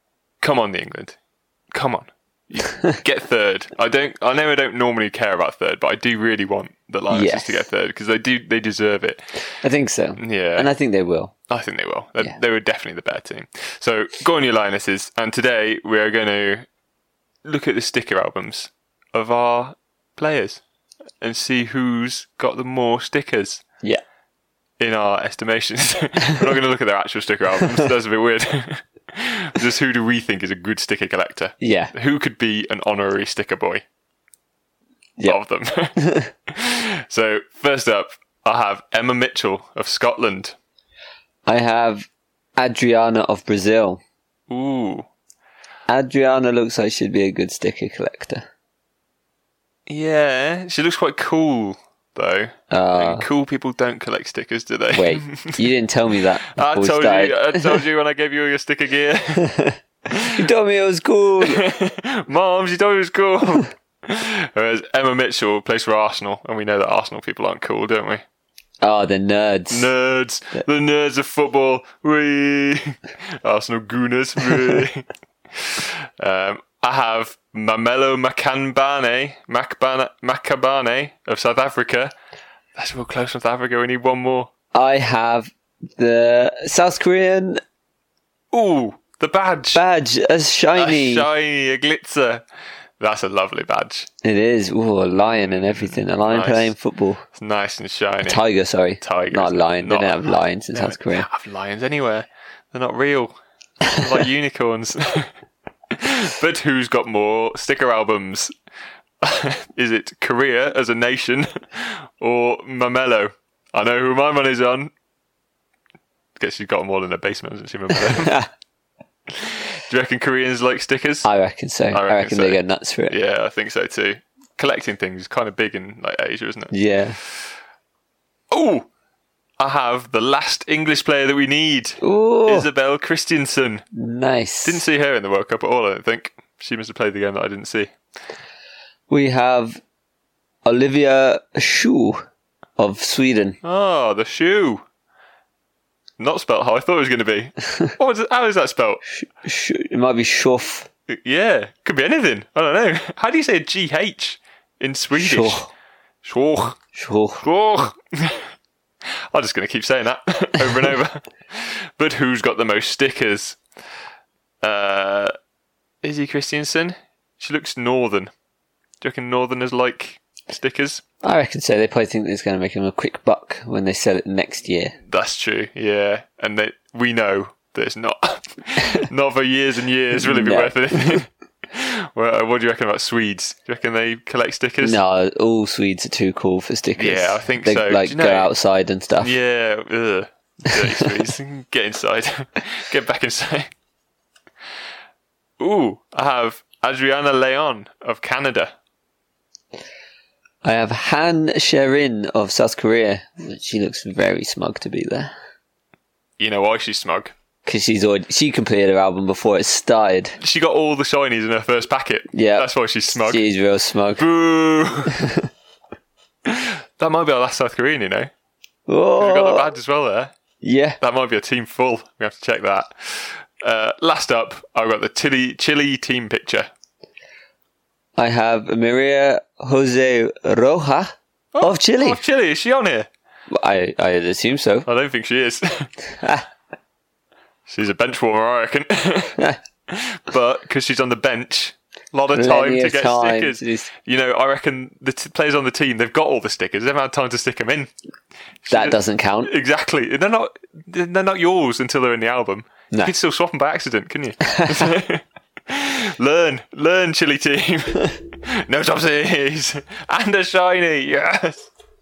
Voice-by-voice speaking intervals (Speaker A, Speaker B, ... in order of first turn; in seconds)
Speaker A: 0.4-1.2, 1.7-9.2, 10.2-10.7, 11.5-16.6, 17.4-20.6, 21.2-23.6, 24.8-33.8, 35.2-35.9, 36.5-40.5, 44.5-45.1, 49.9-55.6, 56.6-59.4, 61.4-68.2, 69.7-75.1, 75.6-82.1, 82.8-84.5, 88.5-89.8, 90.8-92.4, 93.0-94.1, 95.3-96.7, 97.3-98.4, 99.0-105.3, 105.9-108.5, 109.2-114.9, 116.4-118.3, 119.3-121.3, 121.9-126.7, 128.5-128.9, 129.6-133.8, 134.6-137.9, 143.6-144.8, 146.2-149.0, 151.1-155.6, 156.2-156.8, 157.4-158.4, 159.3-163.6, 164.6-165.3, 166.0-168.3, 169.0-171.0, 175.1-185.0, 186.9-188.5, 189.2-193.7, 195.6-198.7, 206.4-207.3, 210.4-213.4, 214.2-215.1, 216.4-218.3, 219.2-220.3, 221.0-226.7, 231.5-233.1, 234.8-235.9, 237.7-239.4, 239.9-247.9, 248.6-261.7
Speaker B: 7.1-7.7, 9.6-11.3, 31.6-31.9, 36.0-36.3, 41.5-44.0, 45.9-48.5, 52.7-53.2, 54.9-57.9, 59.4-59.7, 60.3-61.6, 68.8-69.9, 84.7-87.6, 89.7-91.3, 94.2-97.2, 98.2-101.3, 117.9-118.5, 121.2-123.2, 126.7-127.2, 132.0-132.7, 133.9-134.8, 139.1-139.8, 140.6-142.2, 142.8-143.6, 149.2-150.9, 155.1-155.7, 156.9-157.4, 171.2-174.9, 180.2-181.2, 184.8-189.3, 200.6-205.3, 207.6-210.3, 212.3-214.3, 215.2-215.4, 218.9-219.7, 220.6-221.0, 228.2-232.2, 233.5-234.9, 236.2-236.4, 242.3-243.9, 248.7-249.5, 254.5-254.9